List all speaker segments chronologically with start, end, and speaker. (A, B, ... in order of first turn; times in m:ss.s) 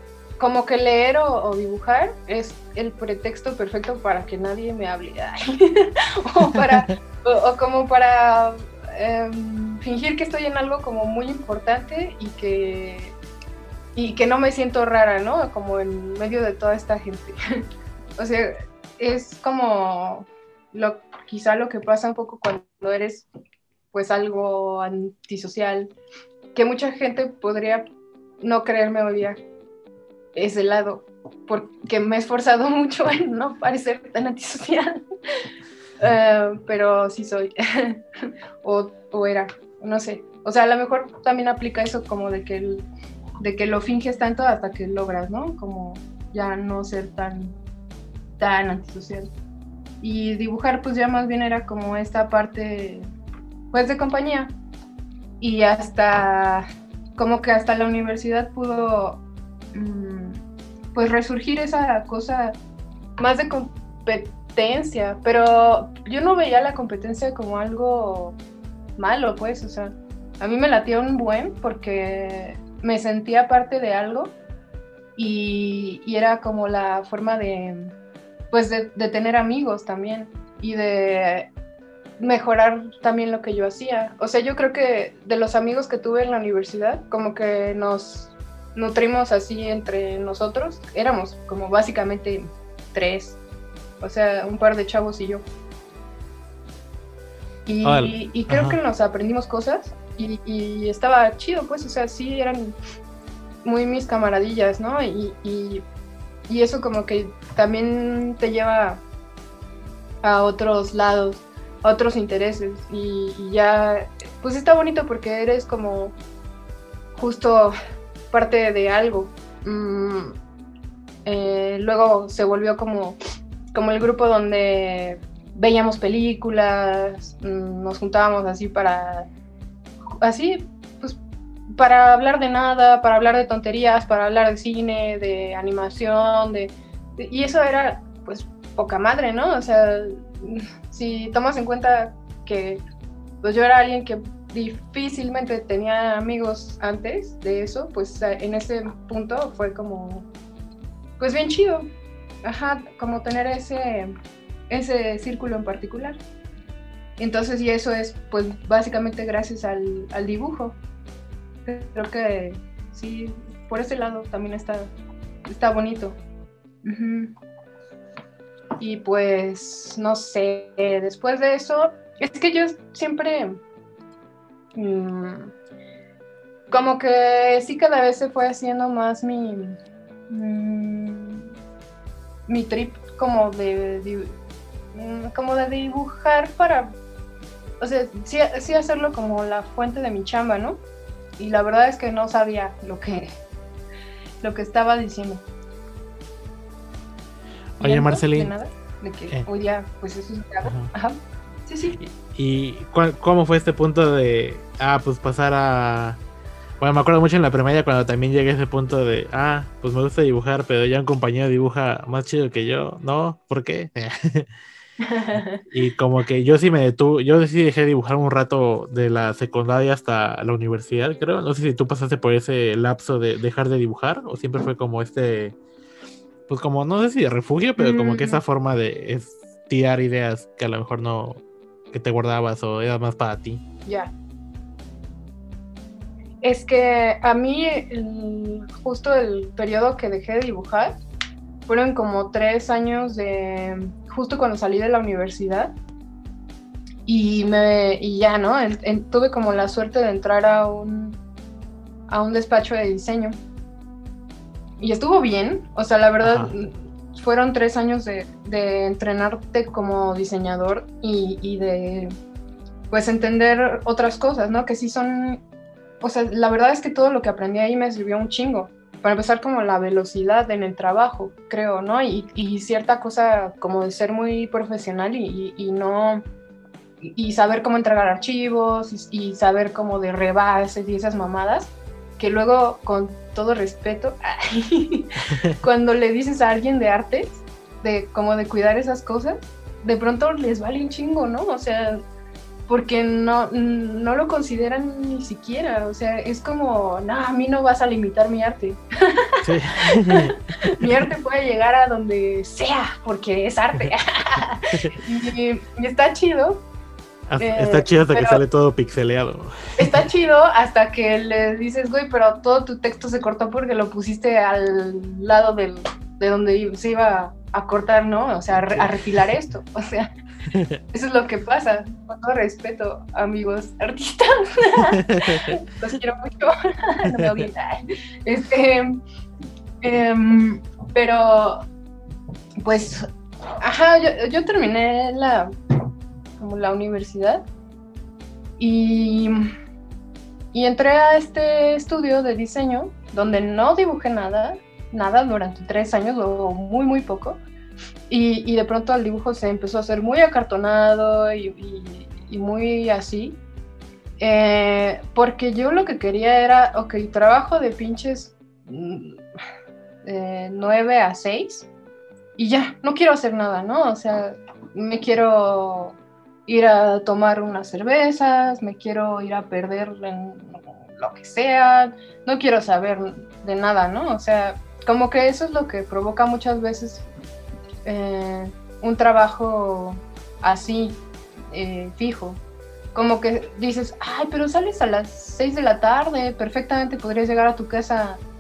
0:00.4-0:13.2 A
0:14.0-0:17.4 A
0:18.2-0:23.3 A
0:23.9-0:25.9 A
0:26.5-0:27.9 A
0:28.4-0:29.4 A
0:30.4-0:35.0 A
0:36.0-0:38.0 A
0:38.6-0:42.9 A
0:43.4-0:47.6 A
0:48.4-0:49.3 A
0:50.0-0:53.1 A
0:53.7-0:54.5 A
0:55.4-0:56.6 A
0:57.2-0:59.2 A
0:59.7-1:00.4 A
1:00.9-1:02.6 A
1:03.2-1:08.4 A
1:09.0-1:14.4 A
1:15.2-1:18.0 A
1:18.5-1:21.5 A
1:22.2-1:33.4 A
1:34.0-1:35.4 A
1:37.7-1:42.8 A
1:37.8-1:38.8 B
1:43.6-1:45.8 A
1:46.5-1:49.0 A
1:50.2-1:56.2 A
1:57.2-1:57.7 A
1:58.3-2:00.4 A
2:01.2-2:03.2 A
2:03.7-2:09.3 A
2:10.2-2:11.2 A
2:11.8-2:22.8 A
2:23.4-2:30.3 A
2:31.2-2:31.9 A
2:32.4-2:34.1 A
2:34.7-2:36.2 A
2:37.2-2:40.8 A
2:41.7-2:44.9 A
2:45.5-2:46.2 A
2:46.8-2:47.3 A
2:48.8-2:53.6 A
2:54.8-2:55.5 A
2:56.7-2:59.8 A
3:00.3-3:01.5 A
3:02.5-3:04.4 A
3:04.9-3:07.0 A
3:07.8-3:10.8 A
3:11.4-3:13.3 A
3:14.4-3:15.4 A
3:17.8-3:18.5 B
3:17.8-3:22.0 A
3:20.6-3:20.9 B
3:22.0-3:26.2 B
3:26.8-3:34.5 B
3:35.0-3:35.6 A
3:35.7-3:45.6 B
3:46.5-3:51.4 B
3:47.8-3:48.4 A
3:51.9-3:53.6 B
3:53.8-3:54.1 A
3:56.4-4:01.0 A
4:01.7-4:05.8 A
4:07.1-4:11.2 A
4:12.1-4:13.4 A
4:14.8-4:22.1 A
4:16.2-4:16.5 B
4:22.9-4:25.4 A
4:26.0-4:36.2 A
4:37.0-4:52.0 A
4:52.7-5:06.6 A
4:59.4-5:00.9 B
5:07.3-5:10.0 B
5:07.4-5:08.4 A
5:09.8-5:20.1 A
5:20.5-5:20.8 B
5:20.9-5:29.0 A
5:25.1-5:25.5 B
5:27.2-5:27.4 B
5:29.8-5:31.7 A
5:32.6-5:33.1 A
5:33.6-5:35.5 A
5:36.4-5:37.4 A
5:38.6-5:39.4 A
5:40.5-5:47.4 A
5:48.1-5:53.4 A
5:54.2-5:59.2 A
6:00.0-6:01.7 A
6:02.4-6:17.1 A
6:17.8-6:22.4 A
6:22.9-6:28.2 A